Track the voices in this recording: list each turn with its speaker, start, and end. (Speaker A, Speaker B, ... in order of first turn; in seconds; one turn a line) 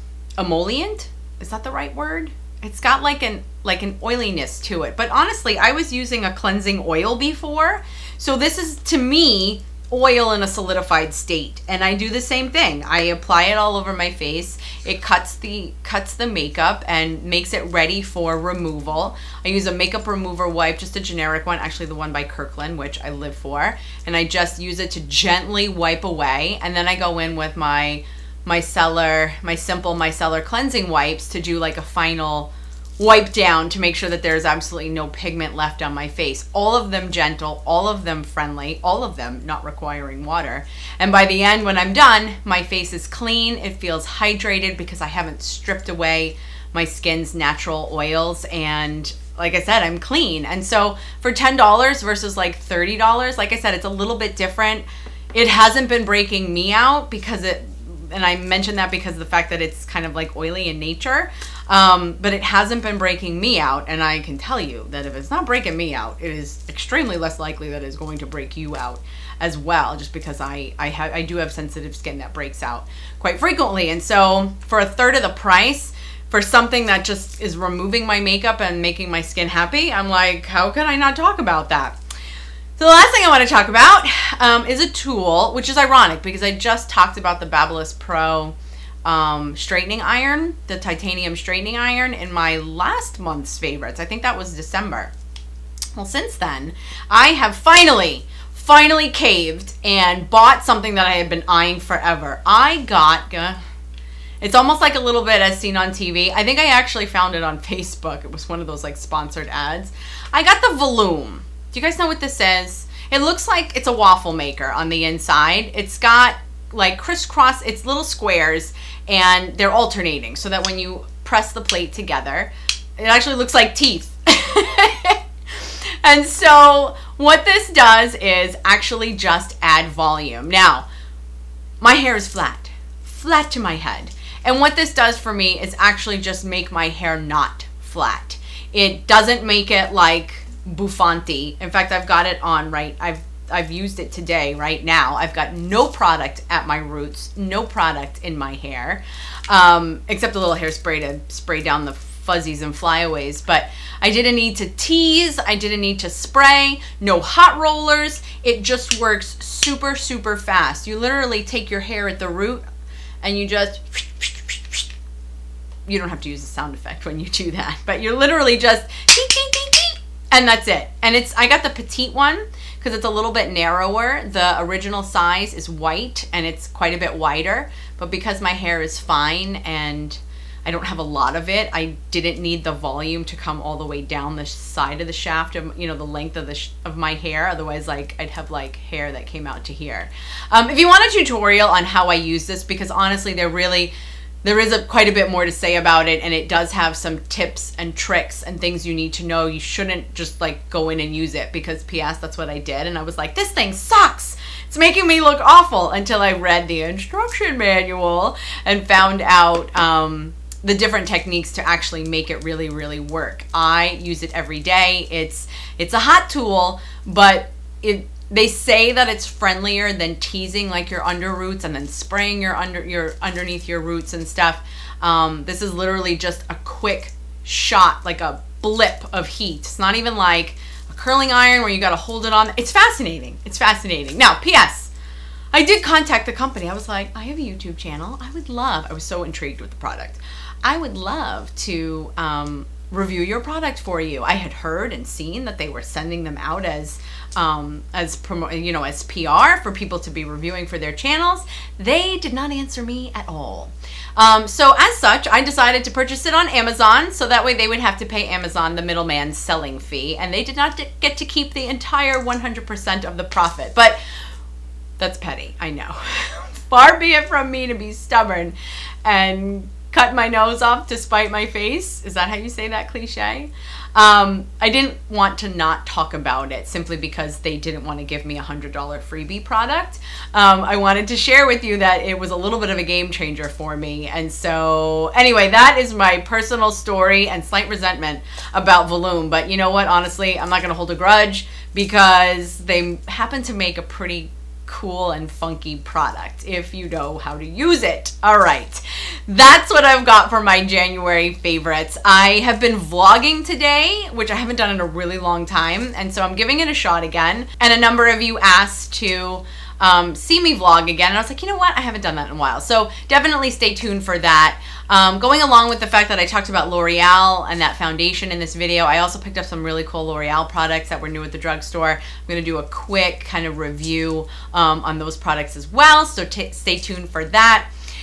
Speaker A: 0.4-82.0
Speaker A: 82.8-95.1
Speaker A: 95.9-103.6
Speaker A: 104.4-130.8
Speaker A: 131.8-162.6
Speaker A: 163.2-164.8
Speaker A: 165.9-193.9
Speaker A: 194.4-234.9
Speaker A: 235.5-264.0
Speaker A: 265.0-327.7